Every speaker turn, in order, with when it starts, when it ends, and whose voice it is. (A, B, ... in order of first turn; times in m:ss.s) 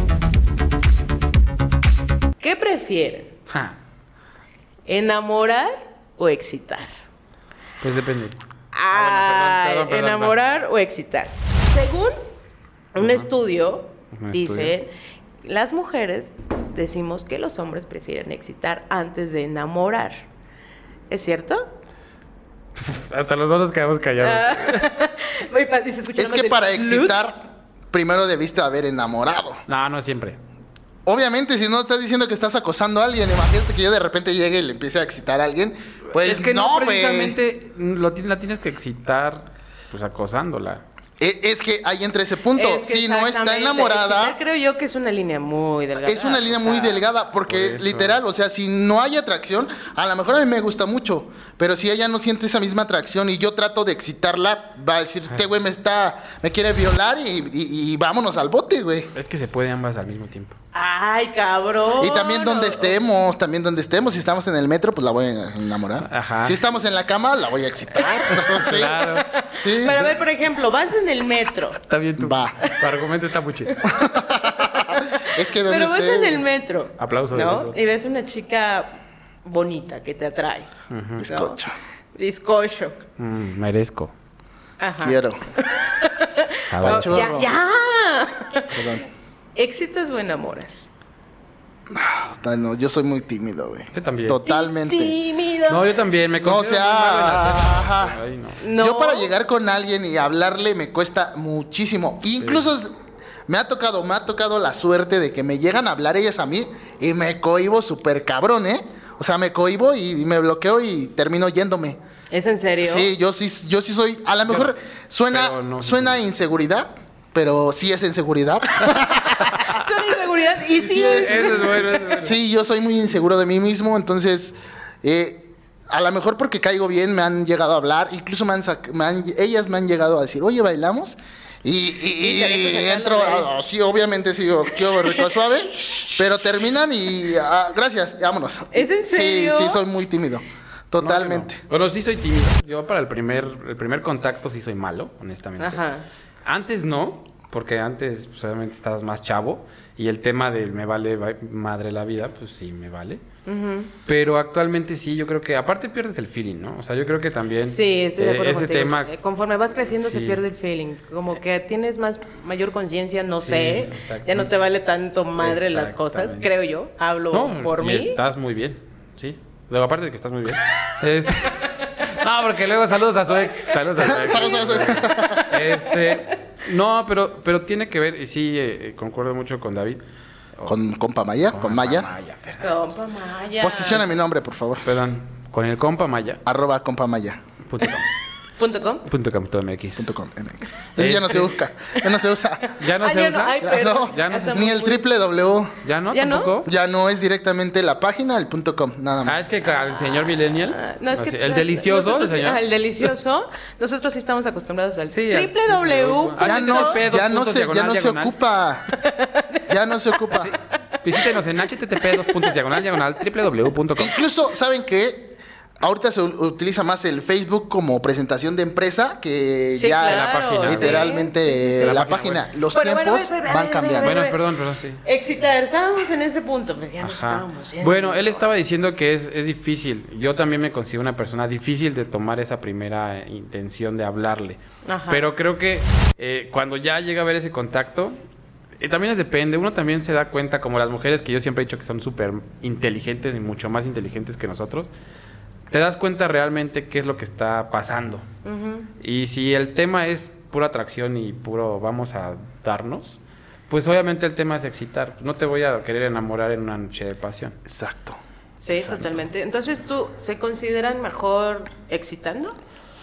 0:02.4-0:03.3 A
0:03.5-0:03.8 B
0:04.9-0:06.9 A
0:07.8-0:10.4 B
0:08.7-0:12.2 A
0:13.0-0:14.9 A
0:13.0-0:13.3 B
0:14.1-0:14.7 B
0:15.4-0:20.2 A
0:21.1-0:21.7 A
0:22.8-0:24.9 B
0:24.2-0:27.2 A
0:26.2-0:29.6 C
0:29.7-0:30.4 B
0:31.1-0:37.4 C
0:36.1-0:40.8 B
0:41.2-0:44.4 C
0:42.5-0:47.0 A
0:46.0-0:59.1 C
0:47.5-0:48.2 B
0:59.2-1:00.6 B
1:00.7-1:02.9 A
1:02.0-1:10.1 C
1:06.0-1:06.6 B
1:08.3-1:09.3 B
1:08.9-1:11.8 A
1:11.8-1:13.9 B
1:12.2-1:12.6 C
1:13.7-1:20.7 A
1:13.8-1:16.4 C
1:17.0-1:17.8 B
1:20.9-1:21.2 B
1:21.2-1:21.7 C
1:21.2-1:21.6 A
1:22.2-1:23.0 A
1:23.2-1:24.1 B
1:24.8-1:28.9 A
1:25.0-1:25.4 C
1:26.7-1:27.3 B
1:26.8-1:27.5 C
1:28.7-1:29.0 C
1:29.6-1:30.9 A
1:31.9-1:35.2 C
1:33.9-1:34.4 B
1:34.4-1:35.8 A
1:35.7-1:38.6 B
1:36.4-1:38.2 C
1:38.6-1:39.3 A
1:38.8-1:42.9 C
1:42.4-1:42.7 B
1:43.5-1:52.0 C
1:52.3-1:53.1 A
1:52.8-1:59.8 C
1:55.3-1:56.2 B
1:59.2-2:02.0 A
2:00.8-2:21.6 C
2:01.1-2:02.4 B
2:12.2-2:13.5 A
2:18.7-2:19.8 A
2:21.0-2:25.8 B
2:25.6-2:26.0 A
2:26.4-2:33.2 B
2:33.5-2:33.9 A
2:34.1-2:39.1 B
2:37.6-2:48.2 A
2:39.9-2:40.4 B
2:43.4-2:44.5 B
2:45.4-2:46.5 B
2:47.3-3:00.0 B
2:51.6-2:51.9 A
2:54.0-2:55.5 C
2:54.0-2:56.2 A
3:00.7-3:02.1 C
3:01.5-3:02.8 B
3:02.6-3:04.0 A
3:03.6-3:05.0 C
3:04.8-3:06.4 B
3:06.4-3:07.4 C
3:07.6-3:08.1 B
3:08.6-3:09.0 A
3:09.0-3:10.1 B
3:10.0-3:12.8 C
3:11.0-3:11.5 B
3:12.7-3:15.0 A
3:12.8-3:14.7 B
3:13.6-3:15.8 C
3:15.8-3:16.7 B
3:16.1-3:16.5 A
3:16.6-3:19.5 C
3:19.2-3:22.6 B
3:20.7-3:27.0 A
3:25.1-3:28.3 B
3:26.4-3:28.9 C
3:28.9-3:29.7 A
3:29.7-3:30.5 C
3:30.3-3:34.2 B
3:31.1-3:31.4 A
3:32.0-3:33.0 A
3:34.0-3:44.2 C
3:39.8-3:42.1 A
3:40.0-3:41.2 B
3:41.8-3:42.5 B
3:42.7-3:44.4 A
3:44.0-3:45.0 B
3:45.0-3:48.4 A
3:47.0-3:58.2 B
3:54.8-3:55.2 A
3:58.8-4:04.9 B
4:05.7-4:08.2 B
4:08.4-4:08.9 A
4:09.0-4:17.6 B
4:17.6-4:18.2 C
4:18.6-4:22.6 A
4:18.7-4:19.2 C